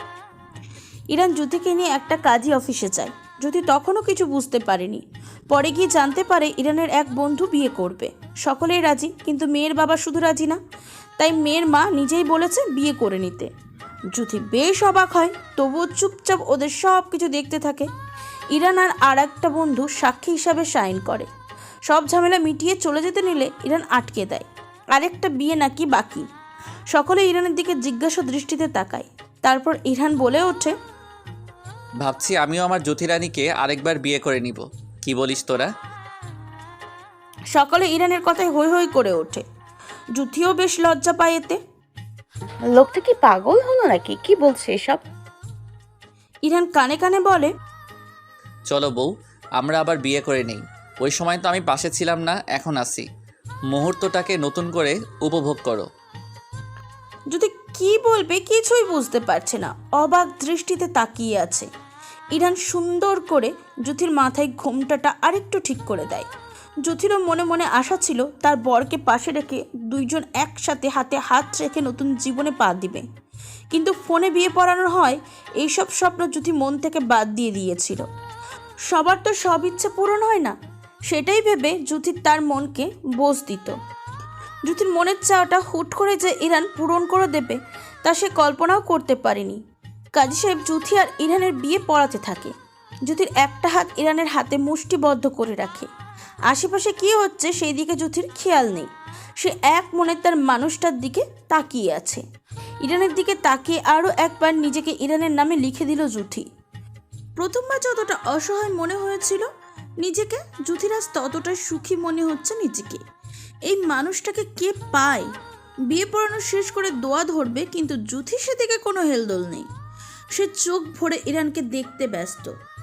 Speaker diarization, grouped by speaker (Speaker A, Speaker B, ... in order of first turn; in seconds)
Speaker A: 1.1-10.6, 11.2-13.5, 14.1-17.9, 18.5-21.3, 21.9-26.2, 26.9-30.7, 37.5-39.4, 40.1-41.6, 46.5-47.5, 57.3-61.7, 62.3-66.3, 66.8-73.0, 73.7-78.0, 78.9-80.5, 81.1-83.8, 84.7-89.6, 90.2-92.5, 93.0-95.9, 96.5-102.2, 102.8-106.5, 107.4-109.5, 110.0-113.0, 113.7-115.3, 115.9-119.7, 120.3-122.5
Speaker B: 32.0-35.7, 48.7-49.1, 49.6-53.0, 53.7-55.9
Speaker C: 42.7-45.0